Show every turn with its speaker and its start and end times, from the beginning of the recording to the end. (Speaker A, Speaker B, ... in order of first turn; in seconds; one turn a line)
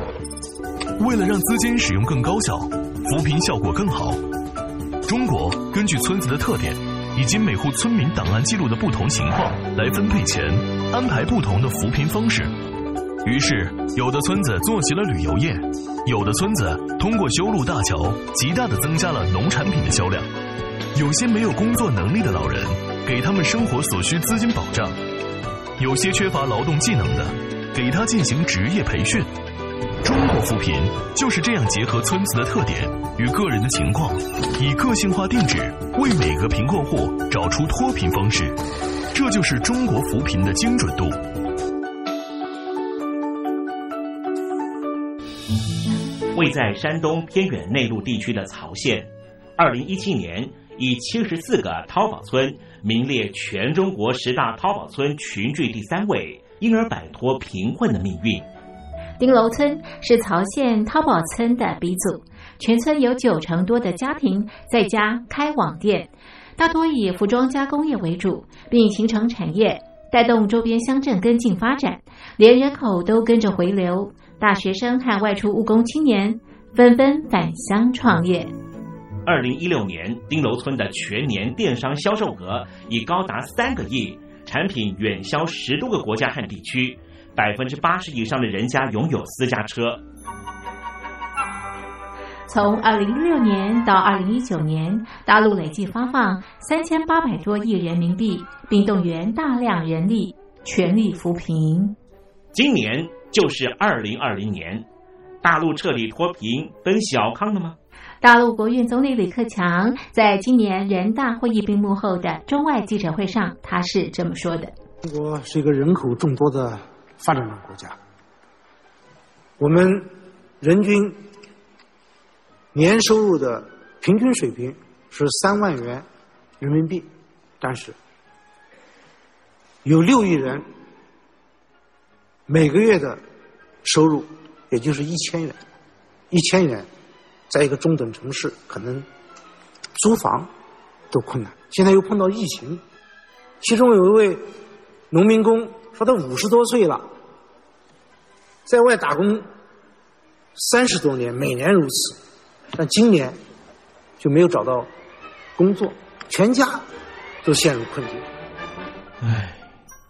Speaker A: 1.0-4.2
Speaker A: 5.0-12.5
Speaker A: 13.2-20.3
Speaker A: 20.9-25.0
Speaker A: 25.8-29.3
Speaker A: 30.0-38.6
Speaker A: 39.1-41.2
Speaker B: 46.3-58.5
Speaker C: 59.2-78.5
Speaker B: 79.2-90.0
Speaker C: 92.5-102.0
Speaker B: 102.5-104.8
Speaker B: 105.4-107.8
Speaker C: 108.2-114.7
Speaker D: 115.0-118.0
Speaker D: 119.6-120.1
Speaker D: 120.6-121.2
Speaker D: 122.7-126.0
Speaker D: 126.6-127.1
Speaker D: 127.6-128.0
Speaker D: 129.8-130.7
Speaker D: 132.5-133.2
Speaker D: 133.8-135.6
Speaker D: 136.3-136.9
Speaker D: 137.5-139.1
Speaker D: 140.0-140.5
Speaker D: 141.1-142.8
Speaker D: 143.6-144.4
Speaker D: 145.1-147.0
Speaker D: 148.7-149.4
Speaker D: 150.6-152.2
Speaker D: 152.8-153.4
Speaker D: 154.2-154.9
Speaker D: 155.6-156.8
Speaker D: 157.4-158.2
Speaker B: 159.2-159.6